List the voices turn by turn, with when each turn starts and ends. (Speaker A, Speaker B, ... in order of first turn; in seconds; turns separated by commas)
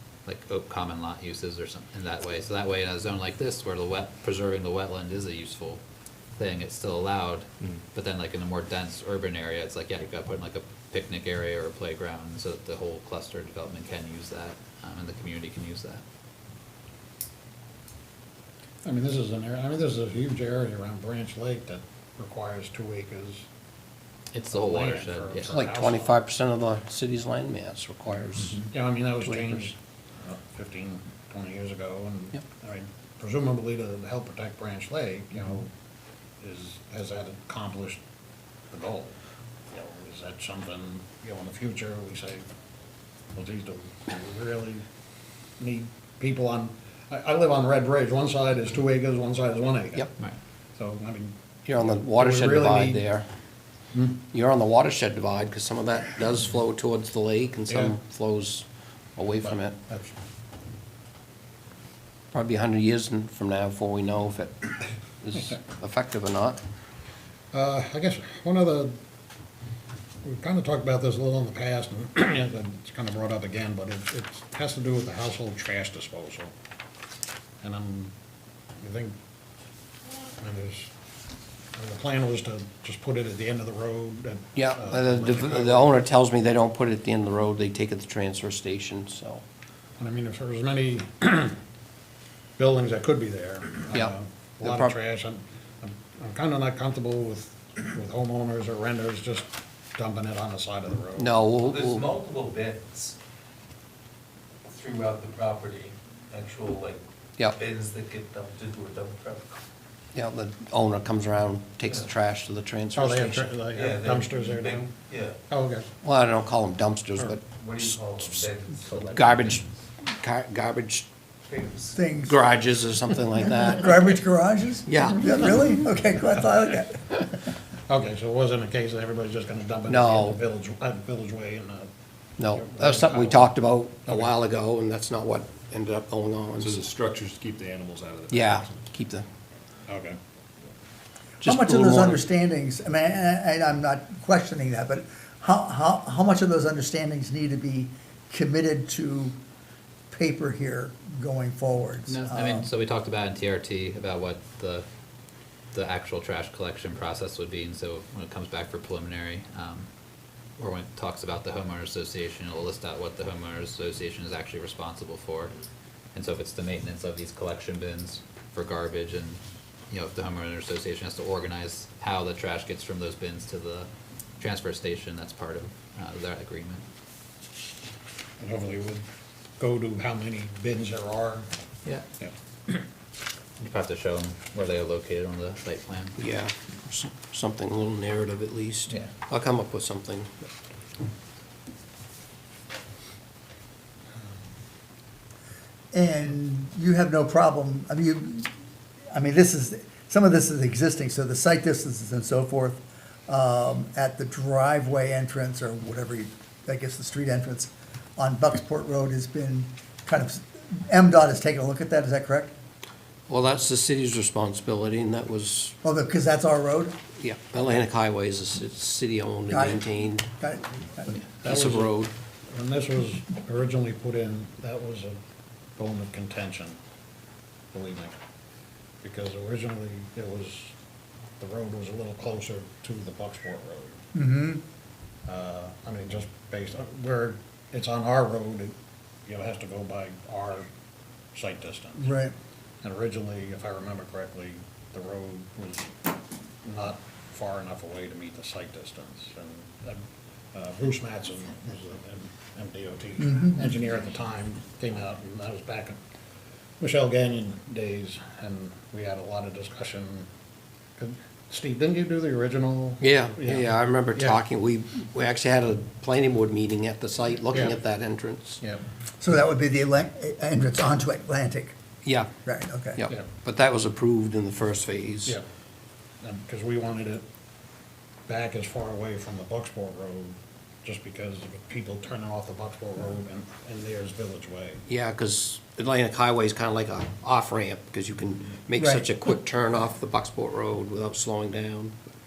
Speaker A: 0.2-5.8, Speaker A: 6.4-16.0, Speaker B: 18.8-23.4, Speaker A: 24.3-25.5, Speaker B: 24.5-26.2, Speaker C: 25.5-28.6, Speaker B: 28.6-35.7, Speaker C: 29.3-29.6, Speaker B: 36.4-38.0, Speaker B: 38.7-39.1, Speaker B: 39.7-42.4, Speaker B: 43.3-44.8, Speaker B: 45.6-50.1, Speaker B: 50.8-53.0, Speaker C: 51.6-53.2, Speaker B: 53.9-54.2, Speaker C: 54.3-58.6, Speaker B: 57.7-58.0, Speaker C: 59.2-59.8, Speaker B: 59.4-60.1, Speaker C: 62.3-64.7, Speaker C: 65.2-66.6, Speaker B: 67.5-69.0, Speaker B: 70.2-76.5, Speaker B: 77.6-78.1, Speaker B: 78.8-79.1, Speaker B: 80.4-80.9, Speaker B: 81.8-86.0, Speaker C: 84.5-89.4, Speaker B: 90.0-91.5, Speaker B: 92.6-101.3, Speaker C: 93.9-94.9, Speaker C: 101.2-102.1, Speaker D: 101.6-103.2, Speaker D: 104.7-107.0, Speaker D: 107.5-109.5, Speaker C: 110.1-113.5, Speaker B: 112.9-114.9, Speaker D: 113.8-115.4, Speaker B: 115.5-115.9, Speaker C: 116.0-118.4, Speaker D: 117.6-119.6, Speaker A: 118.9-119.6, Speaker C: 119.1-121.1, Speaker D: 121.5-121.9, Speaker E: 121.9-122.4, Speaker C: 122.2-124.2, Speaker E: 123.3-127.4, Speaker C: 124.9-125.4, Speaker B: 127.9-131.9, Speaker C: 129.9-130.4, Speaker C: 132.4-136.9, Speaker B: 132.5-133.5, Speaker F: 136.6-138.6, Speaker C: 138.3-139.2, Speaker B: 139.9-140.2, Speaker C: 141.4-142.2, Speaker E: 141.4-149.3, Speaker E: 150.1-152.7, Speaker A: 152.1-154.8, Speaker A: 155.7-159.9, Speaker A: 160.6-165.5, Speaker A: 166.1-176.8, Speaker B: 178.4-179.0, Speaker B: 179.6-181.5, Speaker A: 183.6-186.2, Speaker C: 186.2-190.3, Speaker E: 195.9-198.5, Speaker E: 199.1-212.5, Speaker C: 213.3-215.7, Speaker E: 215.8-216.9, Speaker C: 217.2-220.3, Speaker E: 219.5-221.2, Speaker C: 221.4-222.1, Speaker B: 221.4-221.9, Speaker B: 222.5-225.1, Speaker B: 225.8-226.8, Speaker B: 227.7-228.1, Speaker B: 229.0-230.7, Speaker B: 231.4-234.0, Speaker E: 234.1-234.6, Speaker B: 235.2-238.7, Speaker B: 239.2-240.7, Speaker B: 241.3-242.1, Speaker E: 242.0-242.3, Speaker B: 242.8-245.9, Speaker B: 246.6-250.0, Speaker B: 250.5-256.0, Speaker B: 256.8-260.3, Speaker B: 261.0-264.4, Speaker C: 263.0-268.6, Speaker B: 267.5-267.8, Speaker E: 269.2-271.7, Speaker C: 272.0-272.3, Speaker E: 272.4-273.0, Speaker C: 273.0-275.4, Speaker B: 276.2-277.2, Speaker B: 278.3-284.8, Speaker C: 284.9-291.9, Speaker E: 288.8-289.0